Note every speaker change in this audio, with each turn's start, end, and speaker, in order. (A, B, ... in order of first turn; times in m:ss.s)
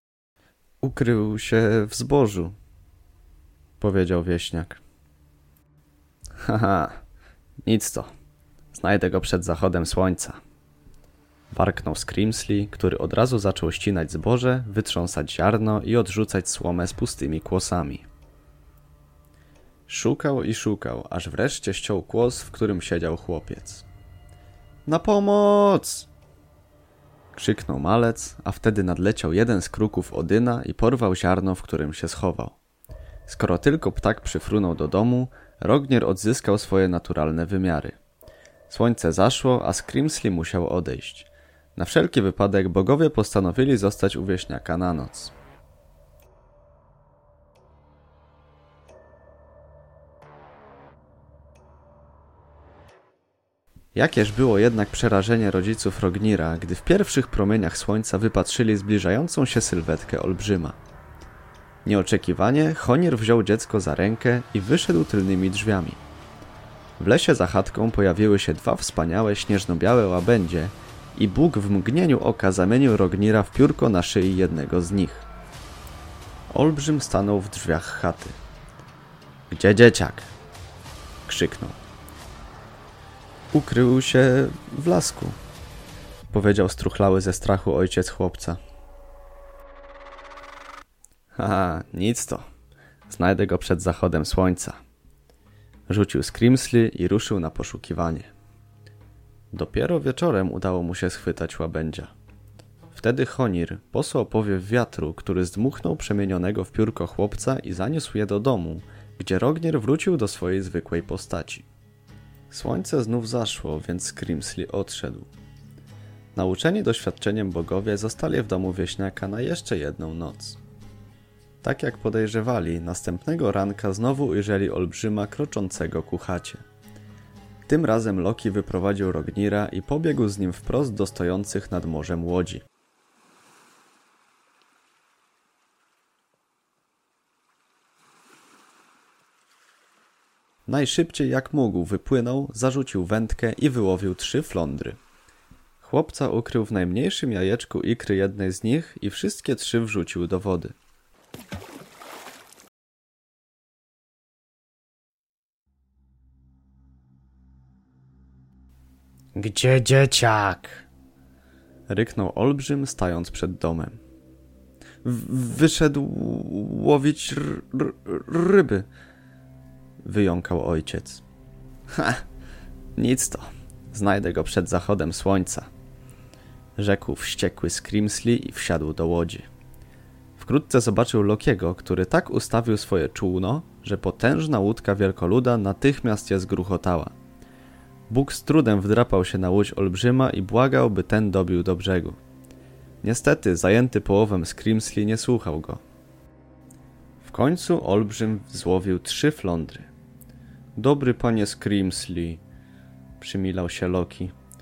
0:00.8-0:02.6 A
0:03.8-0:04.8 A
0:06.4-0:07.0 A
0:07.6-0:08.1 A
0:08.7-0:10.4 A
0:11.5-0:18.1 A
0:19.9-0:23.8 A
0:24.8-0:26.1 A
0:27.3-0:32.6 A
0:33.3-0:38.0 A
0:38.7-0:45.3 A
0:53.9-1:00.8 A
1:01.8-1:06.0 A
1:07.0-1:15.3 A
1:16.5-1:18.4 A
1:19.5-1:20.3 A
1:21.2-1:21.8 A
1:23.5-1:25.4 A
1:26.3-1:28.6 A
1:31.4-1:32.5 A
1:33.1-1:34.8 A
1:35.9-1:38.3 A
1:39.5-1:42.1 A
1:42.9-1:51.7 A
1:52.5-1:55.3 A
1:56.3-2:00.6 A
2:01.6-2:06.6 A
2:07.7-2:12.6 A
2:20.7-2:25.0 A
2:25.8-2:30.7 A
2:39.3-2:40.8 A
2:41.9-2:44.0 A
2:45.0-2:48.9 A
2:50.0-2:51.2 A
2:51.9-2:52.2 A
2:53.0-2:55.7 A
2:56.8-2:59.5 A
3:00.4-3:07.1 A
3:08.1-3:12.2 A
3:13.0-3:15.8 A
3:17.2-3:19.9 A
3:20.8-3:22.4 A
3:23.2-3:24.3 A